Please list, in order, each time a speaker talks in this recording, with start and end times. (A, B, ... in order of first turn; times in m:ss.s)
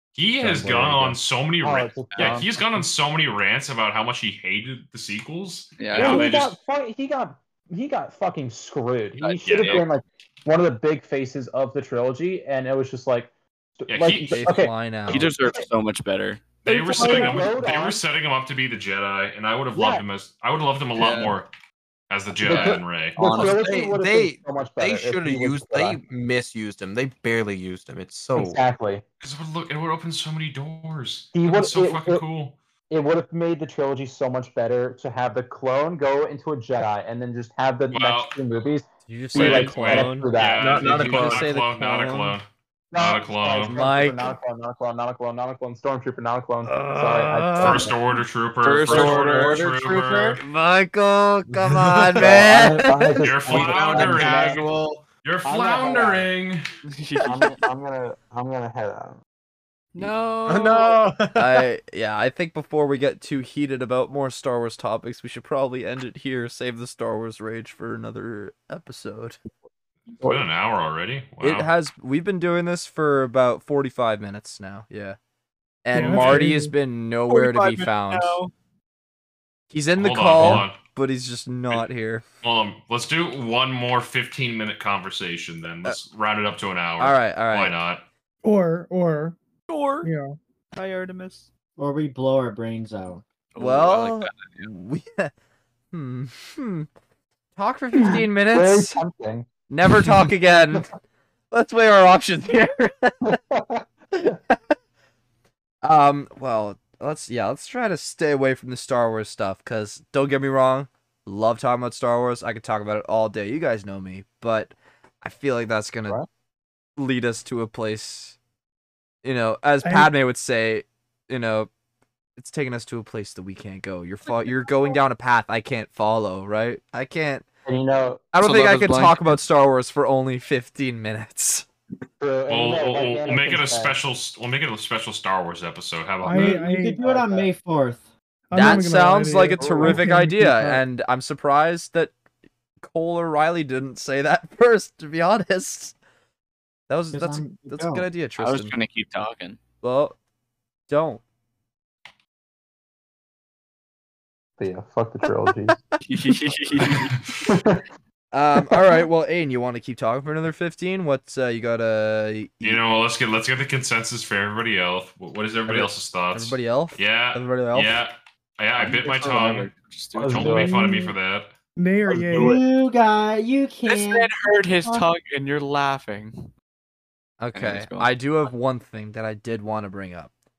0:00.1-0:06.6 A
0:00.4-0:01.2 B
0:01.6-0:02.8 C
0:05.8-0:06.3 D
0:05.9-0:15.3 C
0:09.2-0:09.9 D
0:09.4-0:09.8 A
0:13.9-0:14.6 A
0:14.2-0:15.3 B
0:15.1-0:17.4 D
0:16.6-0:21.5 A
0:16.6-0:18.0 C
0:19.7-0:20.0 C
0:21.0-0:21.3 D
0:22.1-0:23.2 A
0:22.4-0:26.0 C
0:22.5-0:28.6 E
0:23.2-0:23.6 D
0:28.3-0:29.0 C
0:29.2-0:32.6 A
0:31.3-0:32.2 C
0:32.9-0:41.4 C
0:37.9-0:38.3 A
0:39.1-0:40.3 B
0:39.3-0:43.7 A
0:40.6-0:41.4 E
0:41.0-0:42.4 B
0:42.9-0:48.0 C
0:43.7-0:44.2 B
0:46.7-0:47.9 F
0:47.6-0:50.4 A
0:48.6-0:50.3 D
0:50.4-0:53.2 B
0:52.1-0:54.6 C
0:53.2-0:54.7 A
0:53.4-0:55.0 E
0:55.2-0:56.6 A
0:55.4-0:56.3 C
0:56.8-0:57.6 D
0:57.2-0:59.2 C
0:59.9-1:01.0 D
1:01.3-1:09.4 B
1:10.2-1:11.7 A
1:11.4-1:15.2 B
1:15.8-1:18.4 B
1:15.9-1:16.7 F
1:17.3-1:18.5 D
1:19.7-1:22.2 B
1:20.0-1:20.8 A
1:22.4-1:28.0 A
1:27.0-1:27.8 B
1:28.4-1:29.4 F
1:29.7-1:30.1 D
1:30.0-1:30.4 F
1:30.7-1:31.5 D
1:31.8-1:33.2 G
1:33.5-1:34.7 D
1:33.6-1:35.3 B
1:35.9-1:36.9 B
1:37.6-1:39.0 B
1:38.5-1:39.5 C
1:39.7-1:40.9 B
1:41.5-1:43.3 B
1:43.2-1:43.8 C
1:44.2-1:44.7 B
1:45.8-1:56.2 B
1:57.0-1:58.4 B
1:59.2-2:01.7 B
1:59.8-2:00.1 F
2:02.4-2:07.4 B
2:07.6-2:08.2 C
2:08.3-2:11.6 B
2:08.4-2:09.4 D
2:12.2-2:14.0 C
2:12.5-2:16.6 A
2:16.2-2:17.2 F
2:16.3-2:18.0 G
2:17.0-2:17.5 C
2:18.5-2:20.8 F
2:18.5-2:22.1 B
2:22.8-2:25.9 B
2:26.9-2:28.7 B
2:27.1-2:28.0 G
2:28.4-2:29.6 D
2:29.8-2:30.2 B
2:30.9-2:31.2 B
2:34.6-2:35.8 C
2:36.0-2:37.1 D
2:37.4-2:37.8 C
2:38.3-2:42.8 B
2:42.6-2:49.7 A
2:45.7-2:48.0 B
2:48.8-2:50.7 D
2:50.2-2:50.8 C
2:50.3-2:51.5 A
2:50.5-2:51.1 F
2:51.8-2:52.6 F
2:52.1-2:52.5 C
2:52.3-2:54.3 G
2:53.8-2:56.5 D
2:57.4-3:00.3 B
2:57.5-2:58.1 D